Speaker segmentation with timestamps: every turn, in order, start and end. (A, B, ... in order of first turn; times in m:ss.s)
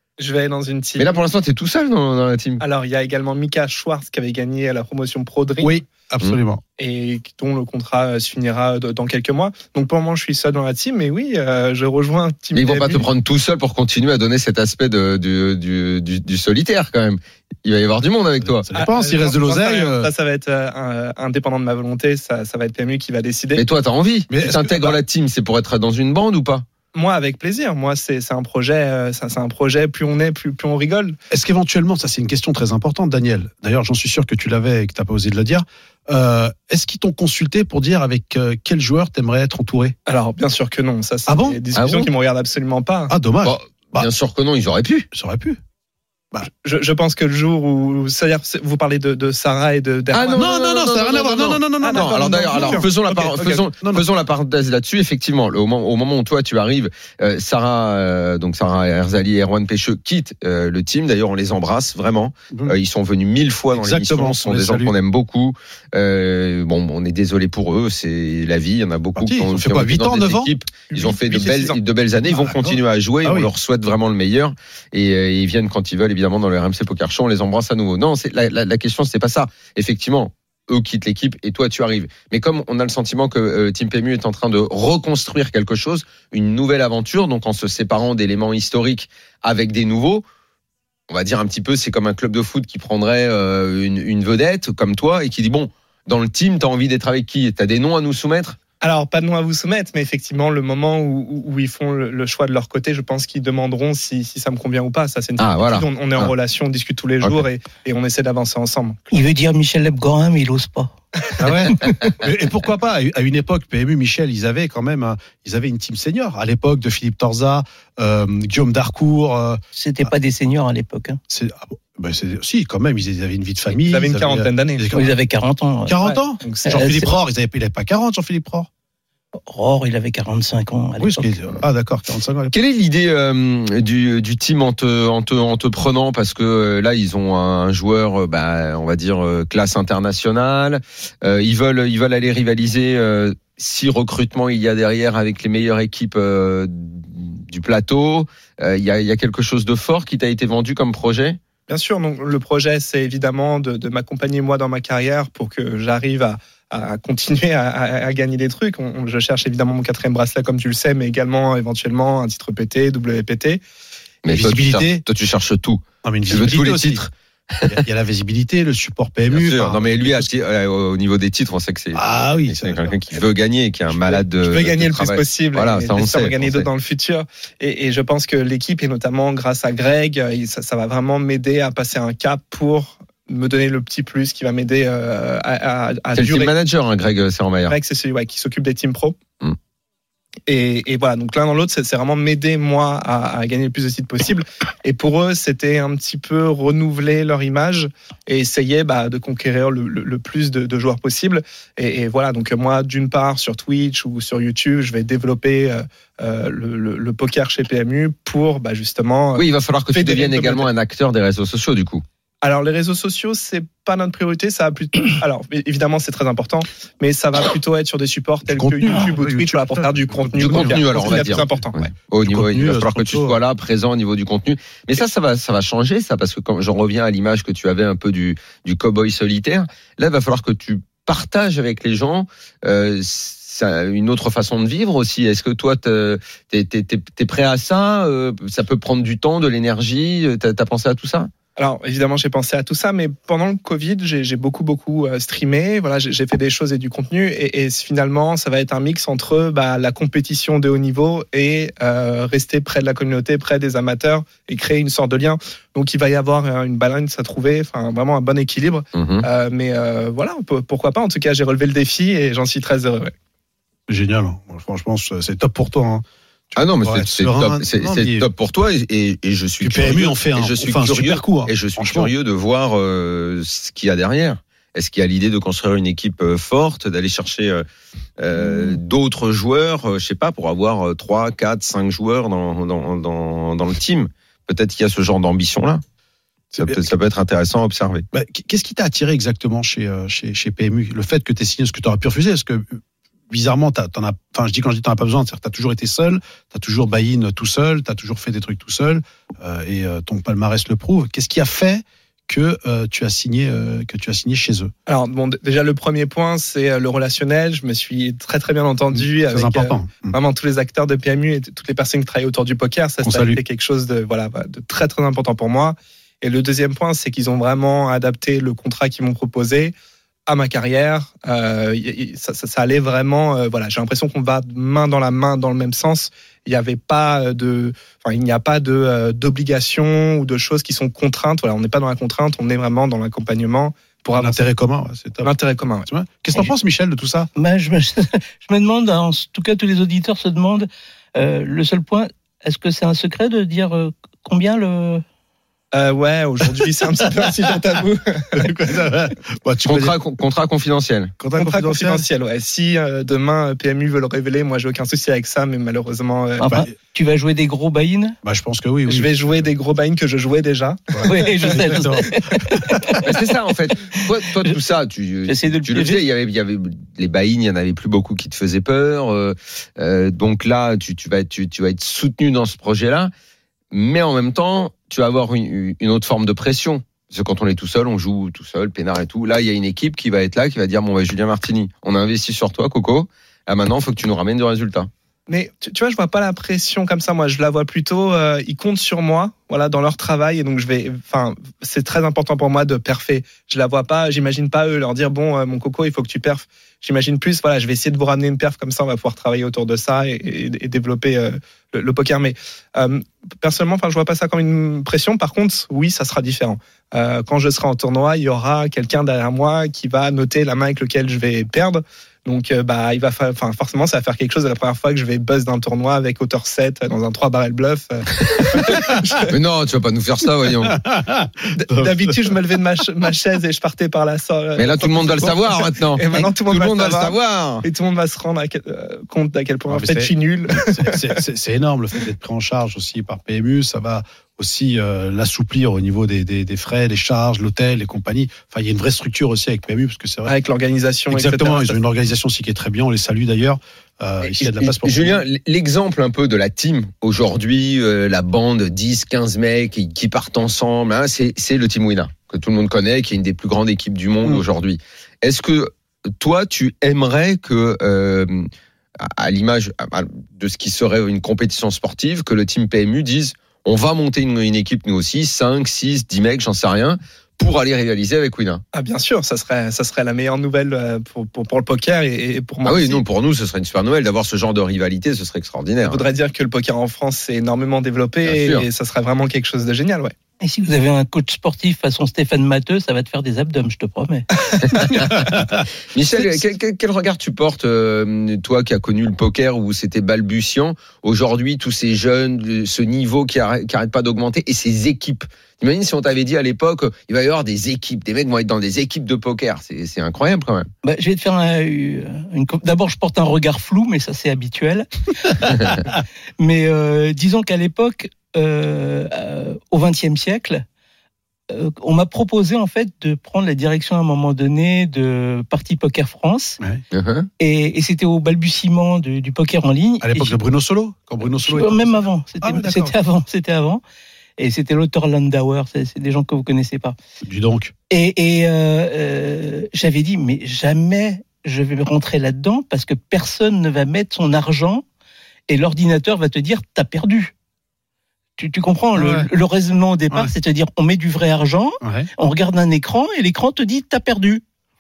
0:00.2-0:01.1 A
0:01.0-0:02.6 B
0:02.6-0:05.8 A
0:05.6-0:06.6 C
0:06.8-0:13.1 A
0:12.5-0:18.7 B
0:18.4-0:20.1 C
0:18.8-0:23.6 A
0:23.6-0:26.6 B
0:24.3-0:25.0 C
0:26.9-0:31.2 A
0:31.3-0:40.0 C
0:40.1-0:43.2 A
0:41.3-0:41.6 C
0:41.7-0:42.1 B
0:43.1-0:44.1 C
0:43.4-0:45.1 B
0:45.1-0:45.6 C
0:46.6-0:50.5 A
0:50.1-1:30.2 B
0:50.4-0:54.1 C
0:51.8-0:53.6 A
1:03.7-1:04.9 C
1:09.2-1:10.5 C
1:10.9-1:11.8 A
1:12.2-1:13.5 C
1:31.1-1:38.6 B
1:38.8-1:49.1 A
1:45.4-1:46.3 B
1:49.1-1:51.0 D
1:51.4-2:00.1 C
1:59.8-2:01.2 D
2:01.3-2:05.1 C
2:03.7-2:05.0 A
2:04.9-2:06.0 D
2:05.9-2:08.7 C
2:06.0-2:06.7 A
2:06.6-2:07.1 D
2:09.4-2:11.4 D
2:11.0-2:12.5 C
2:12.5-2:31.4 B
2:31.7-2:43.6 A
2:44.2-2:47.8 B
2:44.3-2:45.0 C
2:46.0-2:47.0 C
2:47.7-2:50.3 C
2:49.3-2:56.7 B
2:52.0-2:53.2 C
2:53.9-3:06.5 A
3:06.2-3:07.8 B
3:07.7-3:09.2 A
3:10.5-3:30.7 A
3:29.4-3:32.0 B
3:32.4-3:41.9 A
3:38.4-3:41.4 C
3:40.4-4:01.3 B
3:42.2-3:43.4 C
4:01.6-4:23.1 A
4:18.9-4:19.3 B
4:23.9-4:28.3 C
4:26.6-4:37.6 B
4:29.6-4:32.1 C
4:38.2-4:45.8 B
4:38.4-4:38.8 C
4:46.5-4:46.9 C
4:46.6-4:48.1 B
4:48.1-5:04.7 C
5:04.9-5:19.7 A
5:08.9-5:10.2 C
5:13.0-5:13.4 C
5:20.3-5:34.4 A
5:34.2-5:35.3 C
5:35.2-5:35.9 A
5:35.8-5:37.3 C
5:37.4-5:45.0 D
5:45.7-5:48.5 A
5:48.3-5:50.0 C
5:49.6-5:51.1 B
5:51.2-5:52.0 C
5:51.4-5:56.5 A
5:56.4-5:58.2 D
5:58.2-5:59.3 C
5:58.9-6:01.9 A
6:00.9-6:02.7 C
6:01.1-6:03.0 D
6:03.0-6:13.1 B
6:05.3-6:06.0 D
6:13.7-6:24.9 B
6:25.3-6:59.3 A
6:59.3-7:00.8 B
7:00.6-7:02.4 C
7:01.5-7:11.2 A
7:04.6-7:07.6 B
7:09.7-7:20.3 C
7:20.2-7:21.8 A
7:21.1-7:25.2 C
7:24.2-7:38.5 B
7:39.0-7:48.6 B
7:48.7-7:53.0 A
7:52.6-7:56.0 B
7:55.9-8:00.1 A
7:58.2-7:58.7 B
8:00.4-8:04.3 D
8:04.6-8:20.7 B
8:20.8-8:25.8 D
8:26.4-8:30.6 D
8:31.5-8:36.6 D
8:36.9-8:37.3 B
8:37.4-8:40.4 D
8:40.0-8:42.9 C
8:41.3-8:43.8 D
8:44.4-8:47.0 D
8:47.2-8:47.7 C
8:47.9-8:54.8 D
8:55.5-8:57.3 D
8:58.4-9:04.4 D
8:59.0-8:59.3 C
9:01.8-9:02.1 C